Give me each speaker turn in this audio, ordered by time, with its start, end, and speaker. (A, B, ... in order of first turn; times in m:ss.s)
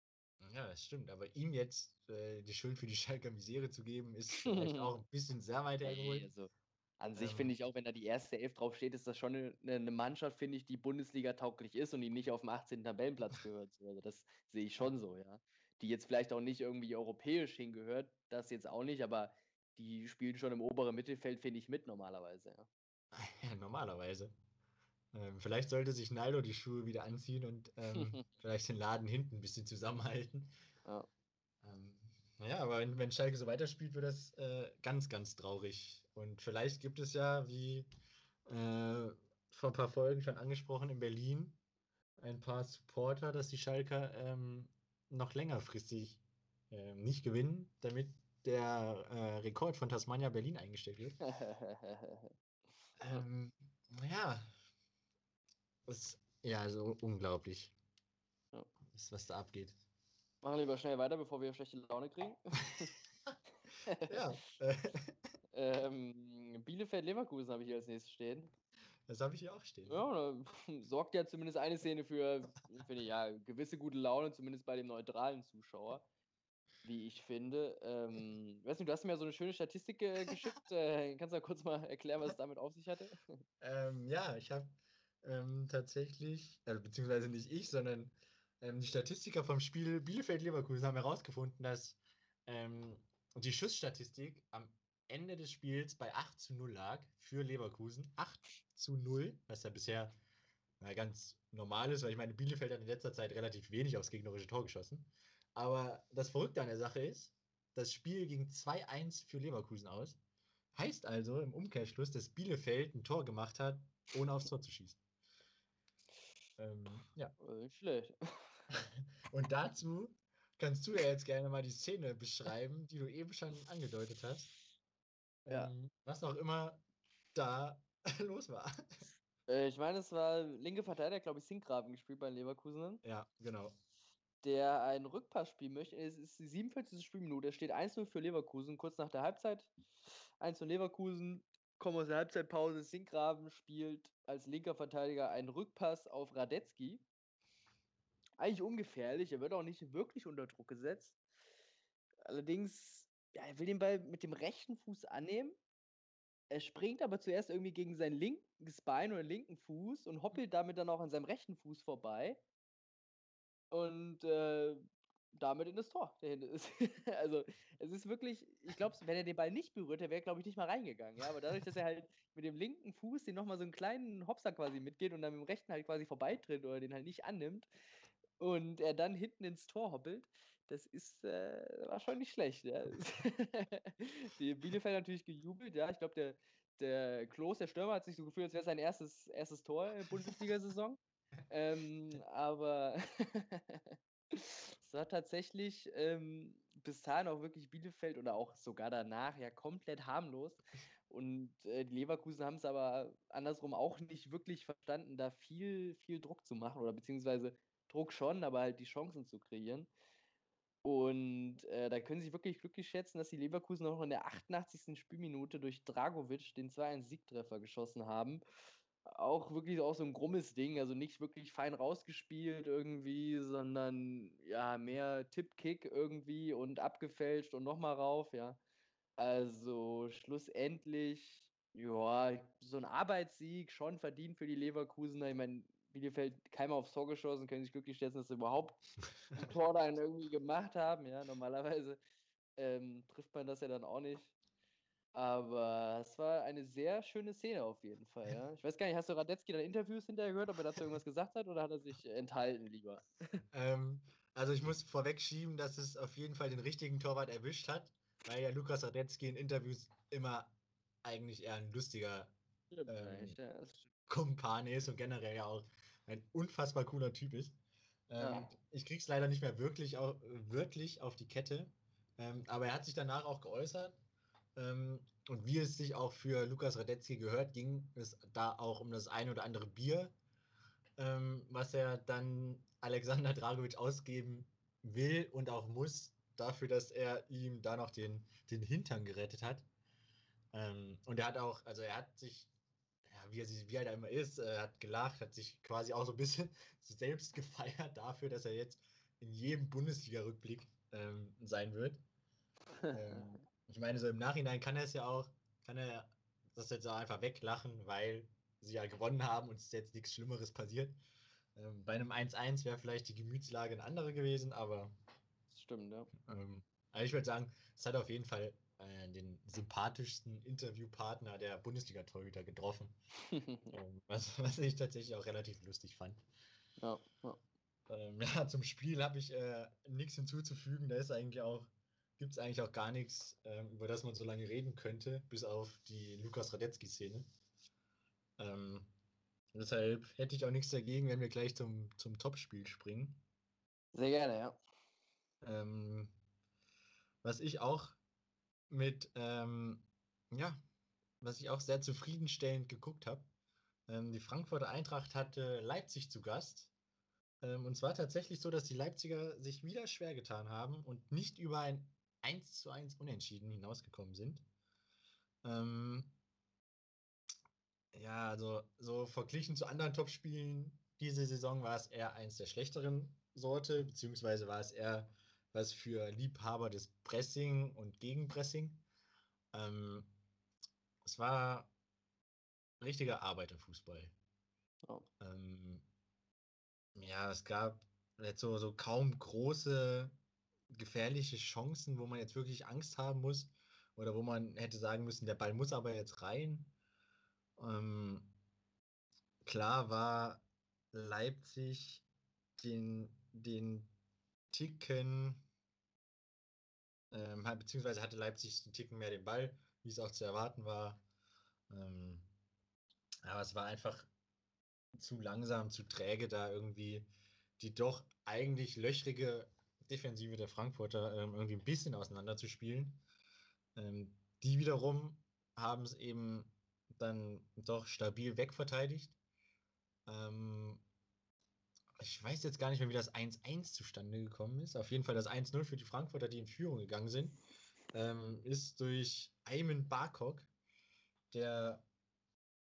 0:00.4-0:06.3 A
0:04.4-0:04.9 B
0:05.8-0:22.7 B
0:07.2-0:07.5 A
0:23.1-0:24.3 A
0:25.1-0:30.5 A
0:31.6-0:37.9 A
0:38.5-0:41.6 A
0:42.2-0:51.2 A
0:51.2-0:52.3 B
0:53.0-0:54.5 A
0:55.9-0:57.8 A
0:58.9-0:59.8 A
1:00.4-1:02.9 B
1:03.9-1:04.2 B
1:04.0-1:05.2 A
1:05.5-1:08.5 B
1:09.1-1:10.0 A
1:09.9-1:16.1 B
1:16.8-1:23.2 B
1:23.6-1:40.1 A
1:40.8-1:50.2 A
1:50.7-1:55.0 A
1:56.6-1:57.3 A
1:57.4-1:58.6 B
1:58.7-2:04.5 A
2:05.5-2:06.8 A
2:07.4-2:09.0 A
2:09.5-2:13.0 B
2:13.0-2:13.8 A
2:14.4-2:19.7 B
2:20.4-2:27.0 B
2:28.4-2:31.2 B
2:32.2-2:35.6 B
2:36.5-2:42.4 B
2:43.7-2:44.8 B
2:45.4-2:57.7 B
2:58.4-3:29.9 B
3:30.8-3:38.4 B
3:39.1-3:48.6 B
3:49.2-3:58.8 B
3:59.3-4:02.0 B
4:02.6-4:04.3 B
4:05.1-4:13.4 B
4:13.5-4:22.3 A
4:22.7-4:23.9 B
4:22.9-4:23.4 A
4:24.1-4:27.6 A
4:28.1-4:34.0 A
4:28.2-4:28.5 B
4:34.6-4:40.1 A
4:41.0-4:49.7 A
4:50.5-4:52.5 A
4:53.1-5:02.0 A
5:02.8-5:03.2 B
5:02.9-5:11.0 A
5:11.6-5:14.9 A
5:15.5-5:16.1 B
5:16.2-5:22.9 A
5:23.3-5:23.7 B
5:23.7-5:26.2 A
5:26.8-5:27.4 B
5:27.9-5:37.3 A
5:38.4-5:38.9 A
5:39.5-5:43.2 A
5:43.9-5:44.6 B
5:45.4-5:46.2 A
5:47.2-5:48.0 A
5:48.7-5:50.6 A
5:51.2-5:53.3 A
5:53.9-5:56.7 A
5:57.4-6:04.4 A
6:05.4-6:06.2 A
6:07.9-6:18.8 A
6:19.5-6:20.1 A
6:21.0-6:21.7 A
6:22.8-6:24.1 A
6:25.2-6:25.9 A
6:27.0-6:30.2 A
6:30.7-6:36.7 A
6:37.6-6:38.4 A
6:39.4-6:42.0 A
6:42.6-6:43.9 A
6:44.5-6:45.4 A
6:47.1-6:51.0 A
6:51.7-6:52.3 A
6:53.2-6:54.1 A
6:55.0-7:03.0 A
7:03.8-7:09.2 A
7:10.1-7:10.8 A
7:12.0-7:17.4 A
7:17.9-7:20.5 A
7:21.3-7:21.8 A